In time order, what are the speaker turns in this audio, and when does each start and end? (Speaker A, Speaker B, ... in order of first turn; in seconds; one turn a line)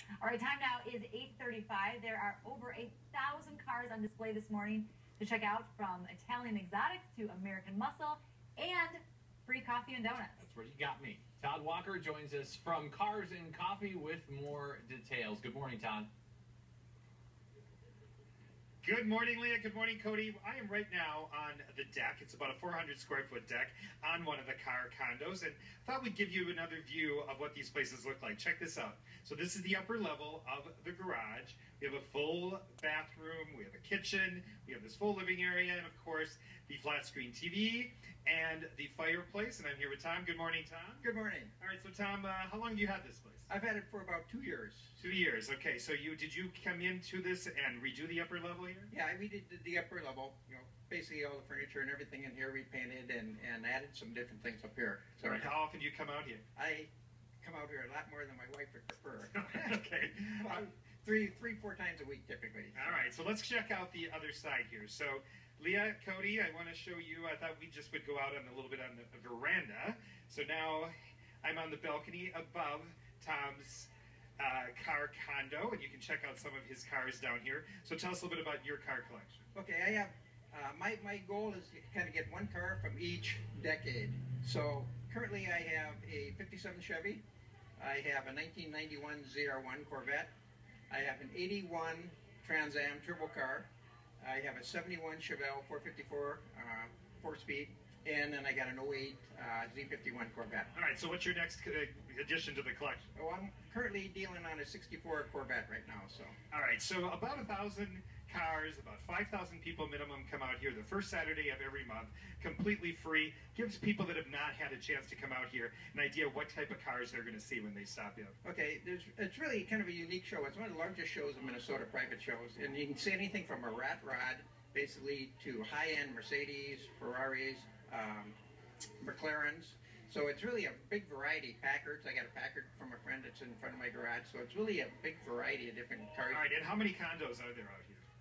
Speaker A: 0.2-10.5
Speaker B: 10.4-16.1
Speaker C: 18.8-41.0
Speaker D: 41.0-41.5
Speaker C: 41.6-43.5
Speaker D: 43.5-45.1
Speaker C: 45.0-48.9
Speaker D: 48.9-55.5
Speaker C: 55.2-56.4
Speaker D: 56.5-56.9
Speaker D: 57.4-59.8
Speaker C: 59.3-60.6
Speaker D: 60.4-63.0
Speaker C: 62.8-79.5
Speaker D: 79.5-87.2
Speaker D: 87.8-90.3
Speaker D: 90.9-93.7
Speaker D: 94.2-100.7
Speaker C: 100.8-103.1
Speaker D: 103.2-106.3
Speaker C: 106.5-118.3
Speaker D: 118.4-128.3
Speaker D: 129.0-136.4
Speaker C: 136.3-138.1